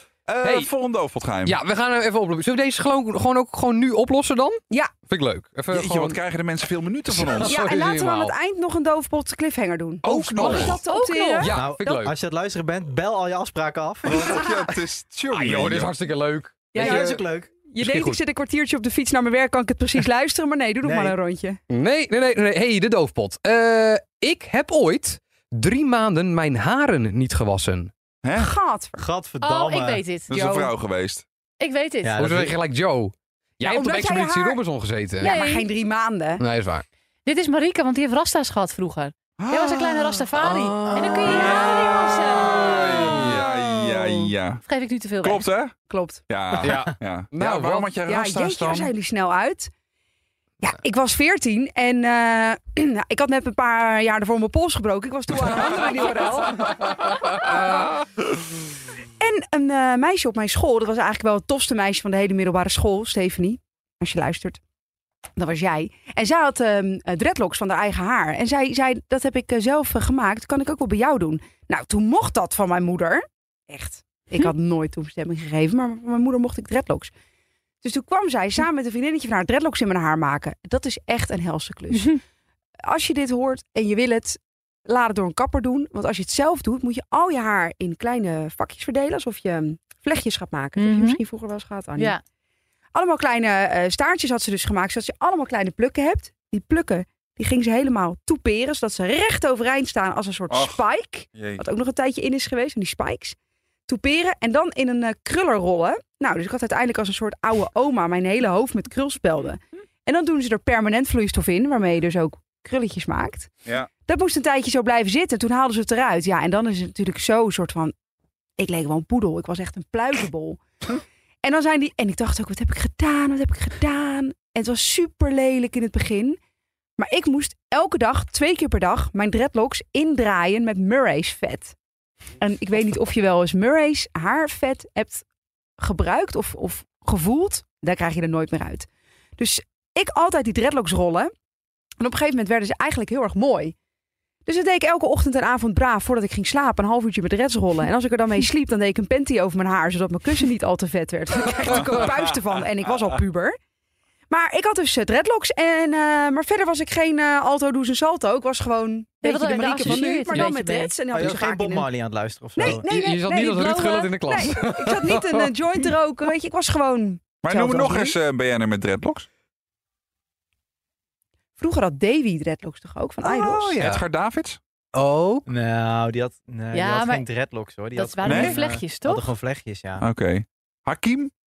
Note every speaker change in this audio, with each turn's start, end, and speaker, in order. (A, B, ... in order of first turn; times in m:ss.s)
0:00.2-0:01.6 A
0:00.4-0:00.7 B
0:01.4-0:06.2 B
0:05.7-0:07.6 A
0:07.1-0:08.4 B
0:07.4-0:11.6 C
0:10.0-0:10.8 B
0:10.4-0:11.5 D
0:11.4-0:12.2 B
0:11.5-0:14.4 E
0:14.0-0:15.9 A
0:14.3-0:14.6 C
0:15.3-0:17.2 B
0:16.7-0:21.6 C
0:16.8-0:17.5 E
0:17.8-0:18.2 B
0:20.8-0:21.2 E
0:21.7-0:27.9 B
0:28.2-0:28.5 A
0:28.3-0:29.0 C
0:29.0-0:30.0 E
0:29.4-0:30.3 D
0:30.3-0:31.2 A
0:30.3-0:30.7 C
0:31.6-0:32.1 D
0:32.0-0:32.6 E
0:32.2-0:35.4 B
0:33.6-0:34.6 C
0:35.2-0:36.4 C
0:35.2-0:35.7 D
0:36.4-0:36.8 B
0:37.2-0:43.3 D
0:39.4-0:40.2 A
0:40.4-0:41.5 B
0:41.3-0:44.6 A
0:41.4-0:41.9 C
0:42.9-0:43.4 B
0:44.6-0:45.4 D
0:45.2-0:45.7 A
0:45.9-0:46.2 C
0:46.3-0:48.9 A
0:46.6-0:47.9 B
0:48.1-0:49.7 C
0:50.6-0:57.6 C
0:59.2-1:04.6 C
1:05.4-1:17.1 C
1:17.8-1:22.2 C
1:22.8-1:32.2 C
1:30.8-1:31.2 D
1:32.9-1:43.4 C
1:40.5-1:40.8 A
1:41.4-1:41.6 A
1:43.9-1:53.5 C
1:54.1-1:57.9 C
1:58.6-2:00.6 C
2:01.4-2:06.4 C
2:07.0-2:11.7 C
2:12.4-2:15.2 C
2:15.8-2:21.3 C
2:22.0-2:23.7 C
2:24.4-2:33.6 C
2:31.7-2:32.3 A
2:34.3-2:41.9 C
2:39.2-2:40.9 D
2:41.1-2:42.9 E
2:42.6-2:48.2 C
2:42.6-2:45.5 B
2:47.4-2:49.3 A
2:51.6-2:53.8 C
2:53.4-2:54.6 A
2:53.5-2:54.0 B
2:54.9-2:55.5 B
2:55.5-3:00.0 E
2:56.7-2:57.2 D
2:57.9-2:59.3 D
2:58.2-2:58.6 A
3:00.0-3:01.3 A